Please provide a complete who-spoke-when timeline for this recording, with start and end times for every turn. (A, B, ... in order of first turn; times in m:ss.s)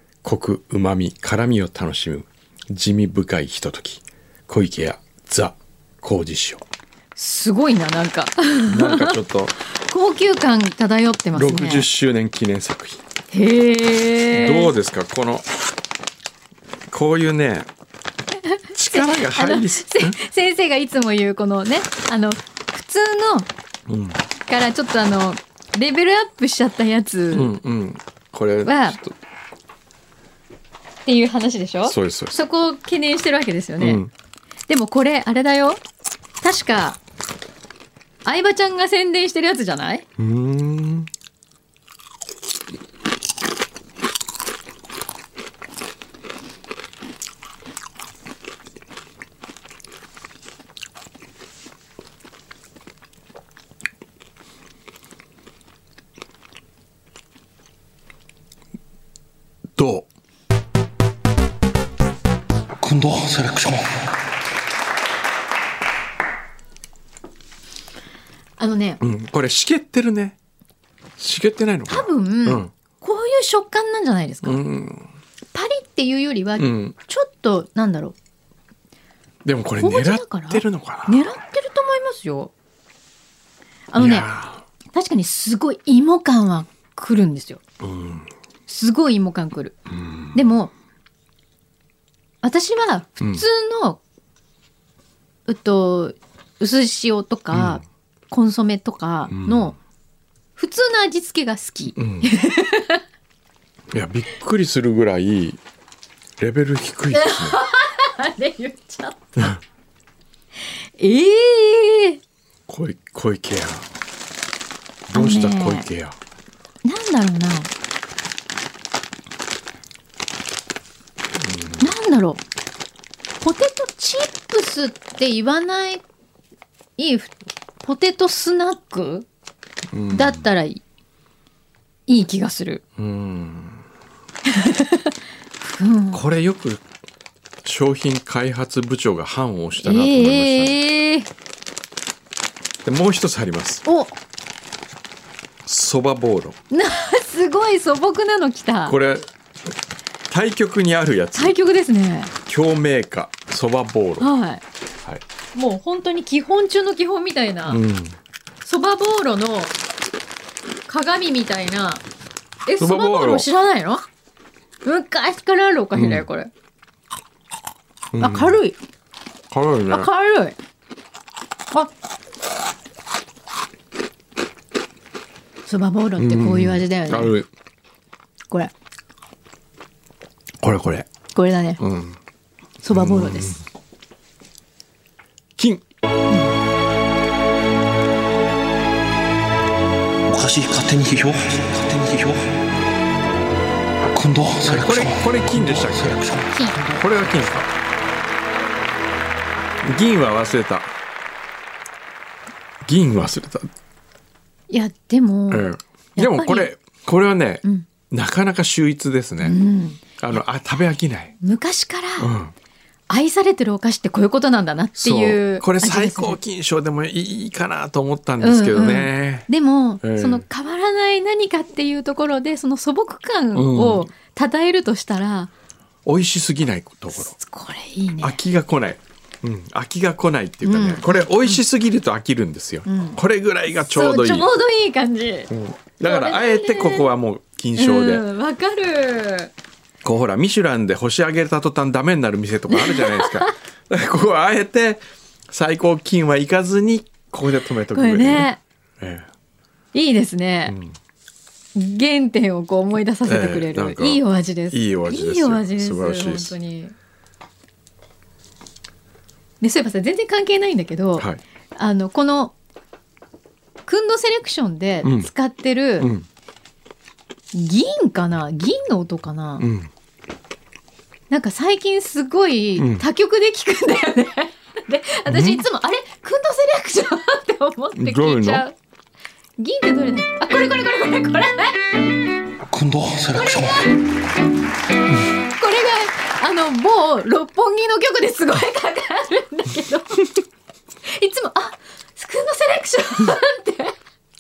0:00.2-0:06.6 A
0:07.2-0:09.2 B
0:08.7-0:09.5 A
0:09.7-0:11.9 B
0:11.3-0:13.0 A
0:13.3-0:14.7 B
0:14.3-0:15.5 A
0:16.9-0:17.7 A
0:18.7-0:20.2 A
0:18.9-0:23.5 B
0:23.9-0:24.2 A
0:24.5-0:27.5 B
0:27.3-0:29.1 A
0:28.6-0:29.0 B
0:31.0-0:34.0 B
0:31.8-0:32.4 A
0:33.8-0:34.1 A
0:34.7-0:35.8 B
0:36.4-0:37.0 B
0:38.2-0:40.0 B
0:40.2-0:41.1 A
0:59.8-1:00.1 A
1:02.8-1:04.0 C
1:08.6-1:09.0 B
1:09.0-1:10.4 A
1:11.2-1:12.7 A
1:11.9-1:14.6 B
1:14.4-1:15.1 A
1:15.5-1:18.1 B
1:16.6-1:16.9 A
1:19.4-1:21.3 A
1:19.8-1:22.5 B
1:23.9-1:24.3 B
1:24.0-1:24.6 A
1:24.9-1:27.6 B
1:27.8-1:28.3 A
1:28.7-1:29.8 B
1:29.9-1:30.4 A
1:30.3-1:30.7 B
1:32.4-1:34.0 B
1:35.5-1:39.8 B
1:37.5-1:37.8 A
1:39.3-1:39.7 A
1:40.6-1:43.0 B
1:42.0-1:42.3 A
1:43.9-1:45.6 A
1:46.4-1:47.6 A
1:47.1-1:49.4 B
1:51.0-1:52.2 B
1:52.7-1:53.9 A
1:55.1-1:56.2 A
1:55.1-1:55.9 B
1:56.8-1:57.7 B
2:01.4-2:01.9 A
2:01.8-2:02.4 B
2:03.4-2:06.0 B
2:07.0-2:09.3 B
2:09.9-2:10.4 A
2:10.1-2:10.8 B
2:12.1-2:12.8 B
2:13.0-2:13.8 A
2:14.5-2:16.2 B
2:16.1-2:16.8 A
2:17.6-2:20.8 A
2:19.8-2:21.3 B
2:22.8-2:23.8 A
2:23.8-2:24.1 B
2:25.6-2:26.6 A
2:26.7-2:29.0 B
2:28.9-2:29.3 A
2:30.3-2:31.6 A
2:31.4-2:32.3 B
2:32.4-2:34.3 A
2:34.2-2:34.6 B
2:35.5-2:37.8 B
2:37.7-2:38.2 A
2:38.6-2:39.7 B
2:40.9-2:42.0 B
2:42.6-2:44.0 B
2:42.8-2:43.5 A
2:44.8-2:46.5 B
2:45.9-2:46.2 A
2:48.1-2:48.6 A
2:48.2-2:48.8 B
2:49.5-2:50.1 A
2:49.9-2:50.6 B
2:55.6-2:57.3 B
2:56.2-2:57.5 A
3:00.6-3:01.1 A
3:01.3-3:01.8 B
3:01.8-3:02.2 A
3:02.8-3:03.6 B
3:02.9-3:03.6 A
3:05.6-3:05.8 A
3:10.3-3:12.5 C
3:14.1-3:17.1 C
3:14.7-3:16.2 A
3:17.0-3:17.7 A
3:19.8-3:20.9 A
3:22.8-3:23.7 A
3:24.7-3:26.7 B
3:25.5-3:29.6 A
3:29.4-3:30.4 B
3:30.2-3:31.3 A
3:31.4-3:32.3 B
3:32.2-3:32.5 A
3:33.1-3:36.4 B
3:35.0-3:39.5 A
3:38.4-3:45.5 B
3:40.0-3:40.4 A
3:43.5-3:44.1 A
3:46.0-3:47.3 A
3:47.1-3:48.4 B
3:48.2-3:54.5 A
3:50.6-3:51.6 B
3:52.8-3:53.2 B
3:53.8-3:55.5 B
3:55.5-3:58.2 A
3:56.0-3:57.1 B
3:57.8-3:59.5 B
4:00.0-4:09.3 A
4:02.7-4:03.5 B
4:07.9-4:08.6 B
4:09.9-4:10.8 B
4:10.7-4:10.9 A
4:11.7-4:16.9 B
4:13.2-4:16.6 A
4:19.6-4:22.5 B
4:23.9-4:26.1 B
4:25.0-4:25.3 A
4:26.0-4:26.2 A
4:27.5-4:29.7 B
4:29.6-4:29.9 A
4:31.3-4:38.7 B
4:32.8-4:33.0 A
4:35.3-4:35.6 A
4:37.9-4:38.6 A
4:39.6-4:41.8 B
4:42.7-4:43.9 C
4:45.6-4:50.4 B
4:51.1-4:53.9 B